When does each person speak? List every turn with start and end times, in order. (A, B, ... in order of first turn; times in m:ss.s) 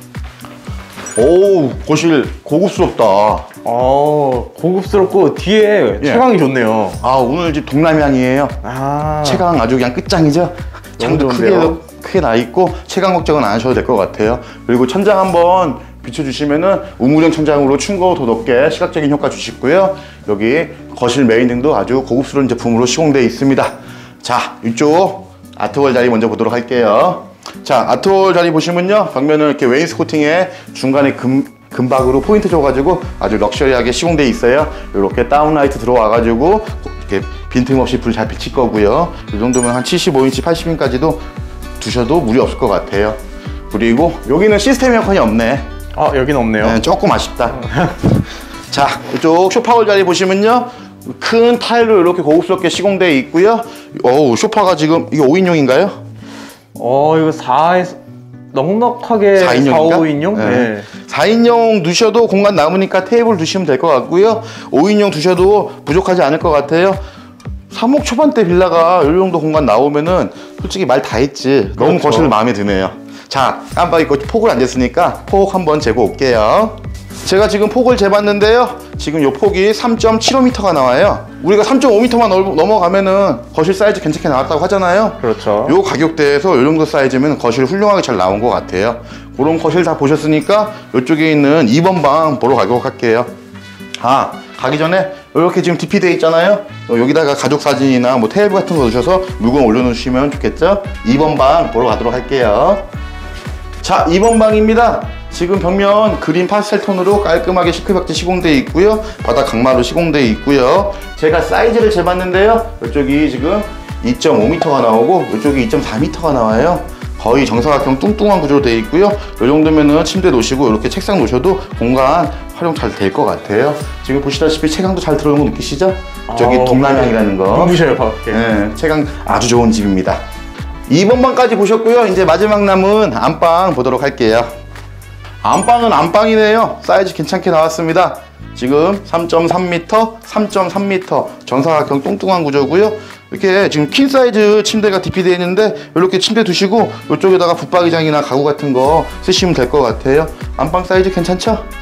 0:01.2-0:03.5 A
0:03.6-0:07.0 B
0:07.0-0:08.6 A
0:08.6-0:09.4 B
0:09.2-0:41.2 A
0:11.0-0:11.8 B
0:41.8-0:43.2 A
0:43.7-0:45.7 A
0:46.0-0:46.8 B
0:46.6-0:47.8 A
0:48.7-0:56.0 A
0:56.8-0:58.0 B
0:58.5-1:00.9 B
0:59.4-1:07.0 A
1:07.7-1:33.3 A
1:11.8-1:12.3 B
1:25.2-1:25.8 B
1:34.0-1:42.9 A
1:43.8-2:07.8 A
2:06.3-2:08.4 B
2:08.3-2:10.2 A
2:10.9-2:14.5 A
2:15.4-2:31.6 A